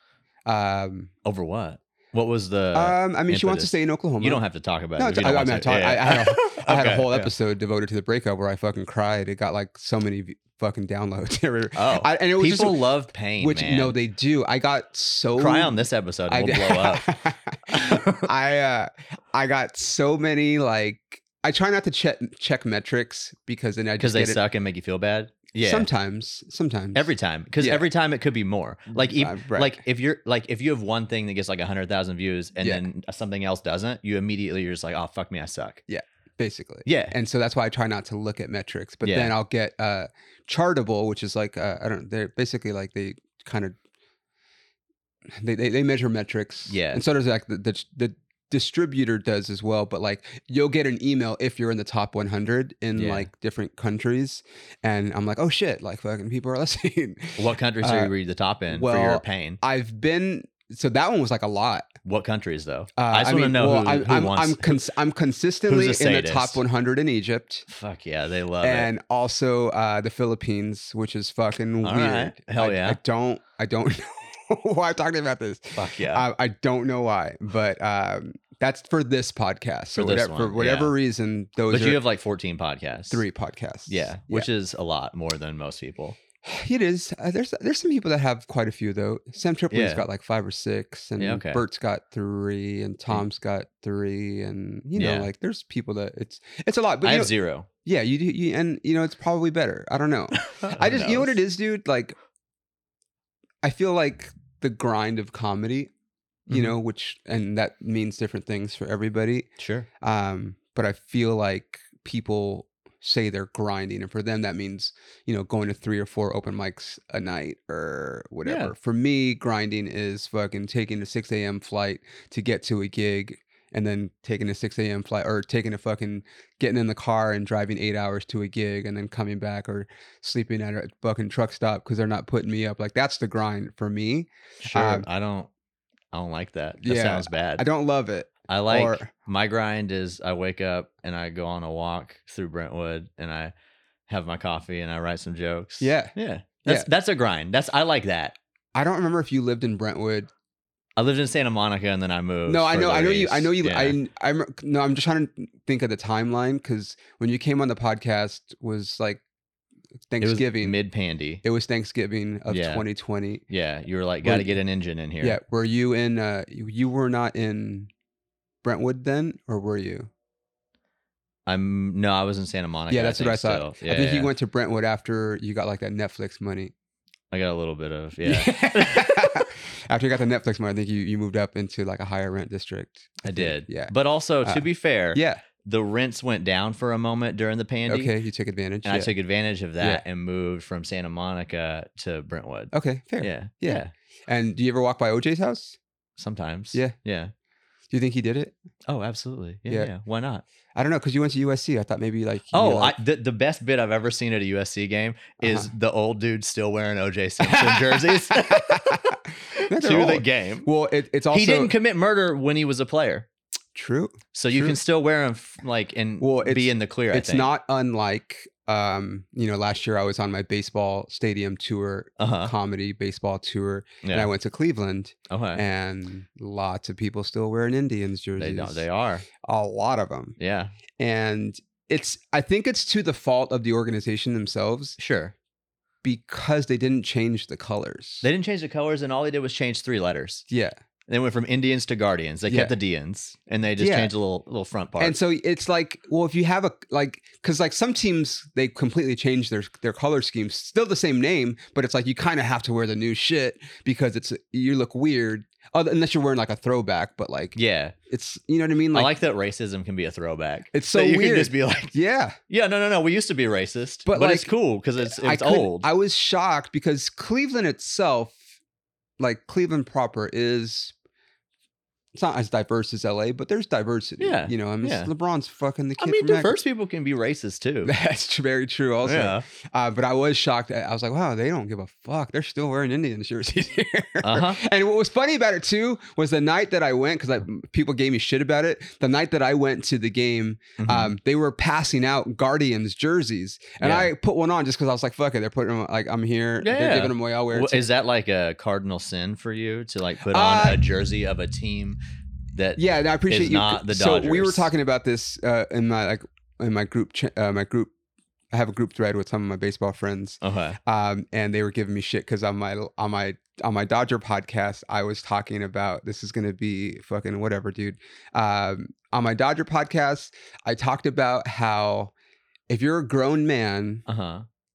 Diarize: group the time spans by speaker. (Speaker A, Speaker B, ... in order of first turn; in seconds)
Speaker A: 0.5-1.1, 2.7-4.4, 5.0-12.8, 13.4-24.4, 25.6-27.1, 27.6-27.9, 28.9-29.8, 32.6-32.8, 35.9-43.8, 45.4-58.1, 58.7-61.9, 63.0-67.7, 68.6-82.0, 83.1-84.5, 86.4-97.3, 97.8-102.1, 103.6-105.9, 106.5-109.5, 110.0-135.1, 136.8-139.1, 145.8-146.1, 148.7-150.3, 152.4-159.2, 160.1-160.8, 161.4-163.4, 164.2-164.6, 165.2-167.9, 168.6-170.1, 172.9-176.7, 178.2-183.9, 184.4-185.4, 187.9-189.1, 192.7-195.8, 197.9-198.5, 200.7-203.0, 205.4-205.7, 207.4-211.7, 213.7-214.8, 216.2-228.8, 229.4-230.4, 231.0-235.0, 236.0-238.3, 240.5-240.7, 242.5-242.7, 243.8-244.1, 245.0-257.6, 258.1-259.1, 260.7-262.4, 264.1-268.4, 269.2-270.9, 272.1-276.5, 277.8-297.9, 300.3-300.8, 302.8-307.9, 308.5-322.1, 322.7-324.1
Speaker B: 1.2-7.3, 11.7-13.9, 15.4-17.1, 17.7-18.3, 24.0-25.9, 26.9-35.8, 36.9-37.1, 39.0-39.4, 46.7-47.0, 52.9-53.3, 57.4-59.6, 62.0-64.8, 65.7-66.6, 67.7-68.9, 71.8-73.0, 75.8-76.2, 79.9-80.9, 81.7-83.2, 83.9-86.2, 89.7-90.0, 91.2-91.6, 95.0-95.3, 97.0-97.7, 100.4-101.4, 106.5-106.7, 109.6-109.9, 118.4-118.7, 134.6-135.5, 136.1-137.6, 138.5-143.5, 144.1-148.3, 151.0-154.0, 160.2-161.4, 162.5-162.8, 163.5-165.4, 171.4-174.3, 177.3-179.4, 183.2-188.1, 188.8-193.9, 196.2-197.3, 198.9-200.4, 202.5-210.7, 211.3-213.2, 214.3-217.5, 222.2-222.5, 224.0-224.3, 225.3-225.6, 228.4-229.2, 230.4-230.7, 235.0-235.3, 238.2-240.4, 241.1-245.2, 257.5-257.9, 258.9-261.9, 262.5-265.9, 274.2-275.1, 276.0-277.9, 279.1-279.4, 284.2-284.6, 290.8-291.1, 293.8-294.1, 296.6-302.0, 302.5-304.7, 310.4-310.8, 324.1-324.4